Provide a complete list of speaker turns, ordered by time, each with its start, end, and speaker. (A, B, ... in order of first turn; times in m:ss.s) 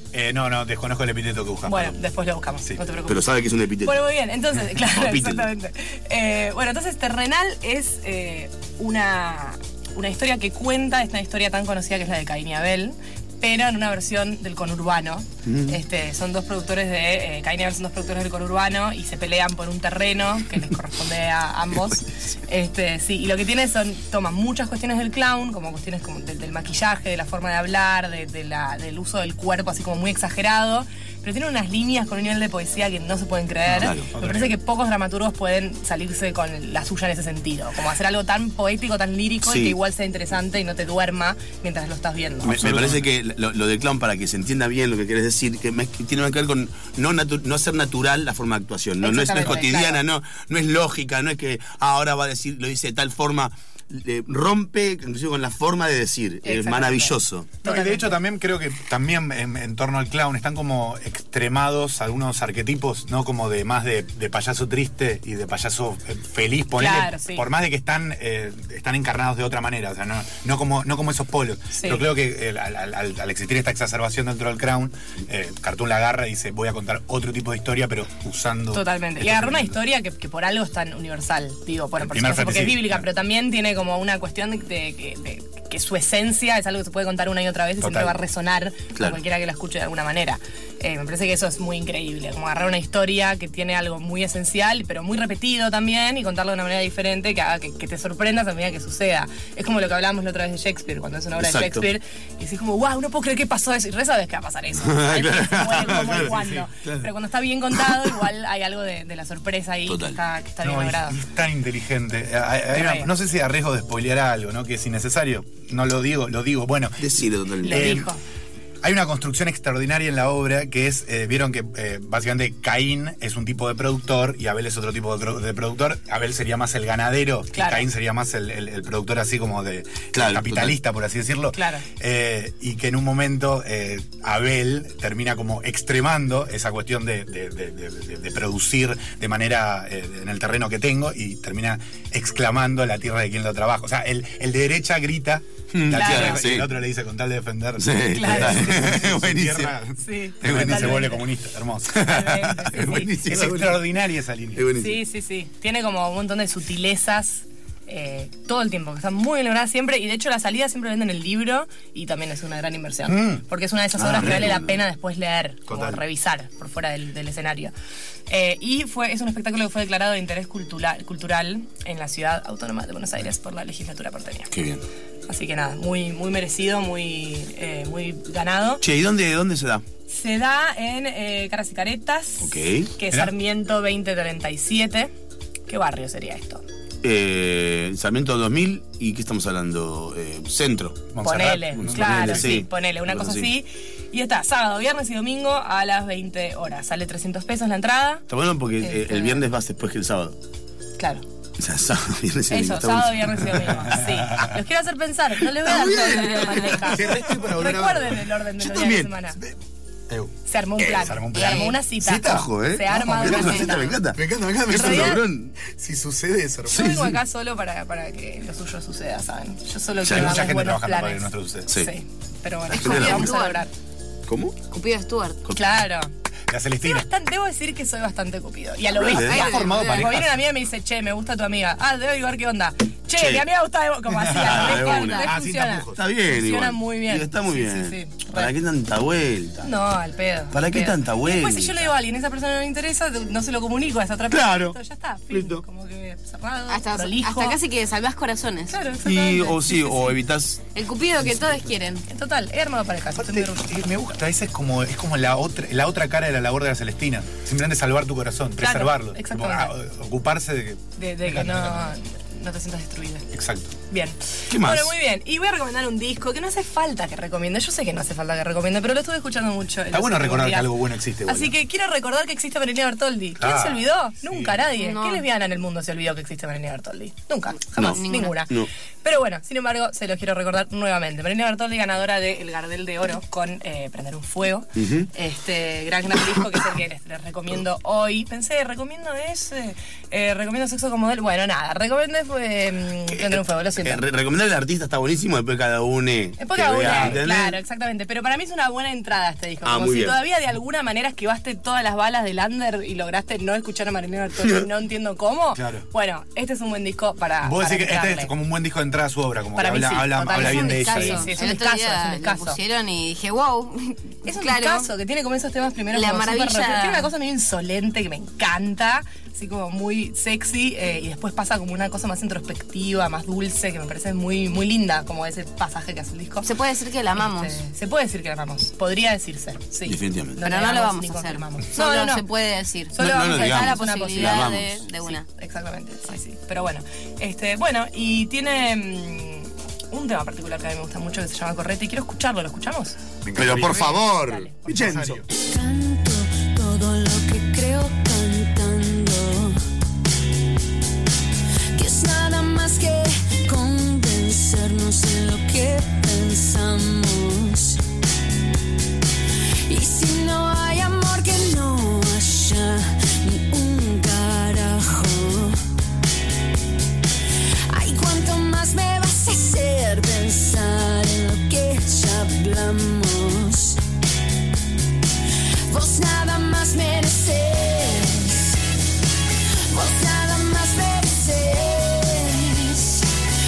0:00.1-0:02.0 A
0:01.6-0:42.6 B
0:03.1-0:04.1 C
0:04.8-0:05.5 C
0:15.4-0:15.8 C
0:33.7-0:34.1 C
0:34.1-0:34.6 A
0:39.4-0:39.8 C
0:42.4-0:43.0 A
0:42.4-0:57.5 C
0:49.0-0:50.0 B
0:56.4-0:58.2 B
0:57.6-1:19.8 A
1:06.8-1:07.5 B
1:11.7-1:12.0 B
1:18.7-1:51.2 B
1:22.0-1:23.1 A
1:27.8-1:28.2 A
1:41.4-1:41.8 C
1:44.8-1:47.1 C
1:46.2-1:46.6 A
1:49.9-1:50.2 C
1:50.6-1:57.1 A
1:52.7-1:53.1 B
1:57.0-1:58.0 C
1:57.6-1:58.2 B
1:57.7-1:58.1 A
1:58.8-2:34.7 A
2:07.5-2:07.9 B
2:10.1-2:10.7 C
2:11.5-2:11.8 B
2:25.7-2:26.7 C
2:25.9-2:26.5 B
2:27.8-2:29.8 C
2:28.1-2:28.8 B
2:30.0-2:31.2 B
2:30.4-2:31.1 C
2:31.9-2:33.8 C
2:32.0-2:33.1 B
2:34.6-2:35.0 C
2:34.8-2:47.7 B
2:43.1-2:43.4 A
2:44.0-2:44.7 C
2:44.0-2:44.6 A
2:45.7-2:46.0 A
2:48.3-2:54.5 B
2:54.5-2:54.8 C
2:55.3-2:58.8 B
2:58.8-2:59.8 C
3:00.1-3:05.1 B
3:02.4-3:02.9 C
3:05.7-3:06.6 B
3:07.0-3:13.5 C
3:11.1-3:12.6 A
3:11.2-3:18.2 B
3:18.3-3:20.4 C
3:18.8-3:19.4 B
3:21.0-3:21.2 B
3:21.6-3:23.8 C
3:22.5-3:29.4 B
3:24.0-3:24.5 A
3:25.6-3:27.6 C
3:26.8-3:28.3 A
3:28.6-3:29.1 C
3:30.4-3:34.0 B
3:30.8-3:35.5 C
3:30.9-3:31.7 A
3:31.3-3:31.7 D
3:32.9-3:37.1 A
3:34.7-3:35.2 B
3:36.7-3:43.7 B
3:36.7-3:37.1 C
3:40.0-3:40.4 C
3:40.0-3:41.8 A
3:42.7-3:43.3 C
3:42.8-3:43.6 D
3:44.3-3:44.6 C
3:44.7-3:45.4 D
3:45.5-3:46.1 B
3:46.5-3:47.1 A
3:46.8-3:58.5 B
3:49.0-3:49.5 C
3:49.1-3:50.0 D
3:49.3-3:50.4 A
3:53.2-3:53.4 C
3:54.2-3:56.0 A
3:54.3-3:55.3 C
3:56.0-3:59.7 C
3:59.6-4:07.6 B
4:00.5-4:01.9 C
4:04.3-4:04.8 C
4:05.3-4:05.6 C
4:06.7-4:08.8 D
4:08.7-4:10.2 B
4:09.0-4:10.6 C
4:10.7-4:12.0 D
4:12.1-4:13.6 B
4:13.2-4:21.9 A
4:18.6-4:19.7 B
4:21.0-4:23.3 B
4:23.3-4:23.8 A
4:23.9-4:54.0 B
4:24.5-4:24.9 C
4:29.9-4:31.5 A
4:33.4-4:34.6 A
4:34.8-4:35.2 D
4:37.8-4:38.7 C
4:37.8-4:38.4 D
4:44.8-4:45.1 C
4:53.1-4:57.6 C
4:56.4-5:08.3 B
4:56.8-4:57.2 A
4:59.6-5:00.2 C
5:05.5-5:05.9 A
5:07.4-5:11.3 A
5:09.5-5:12.6 B
5:10.3-5:14.9 D
5:14.2-5:26.5 B
5:15.9-5:17.1 D
5:26.4-5:27.6 D
5:27.2-5:32.2 B
5:29.8-5:30.4 C
5:30.4-5:35.2 D
5:32.9-5:43.0 B
5:33.0-5:34.8 C
5:43.2-5:44.0 A
5:43.4-5:45.2 C
5:43.6-5:44.8 B
5:44.6-5:45.2 A
5:45.3-5:49.6 E
5:51.7-5:57.8 E
5:59.6-6:05.6 E
6:07.7-6:13.8 E
6:15.7-6:18.6 E
6:19.7-6:23.1 E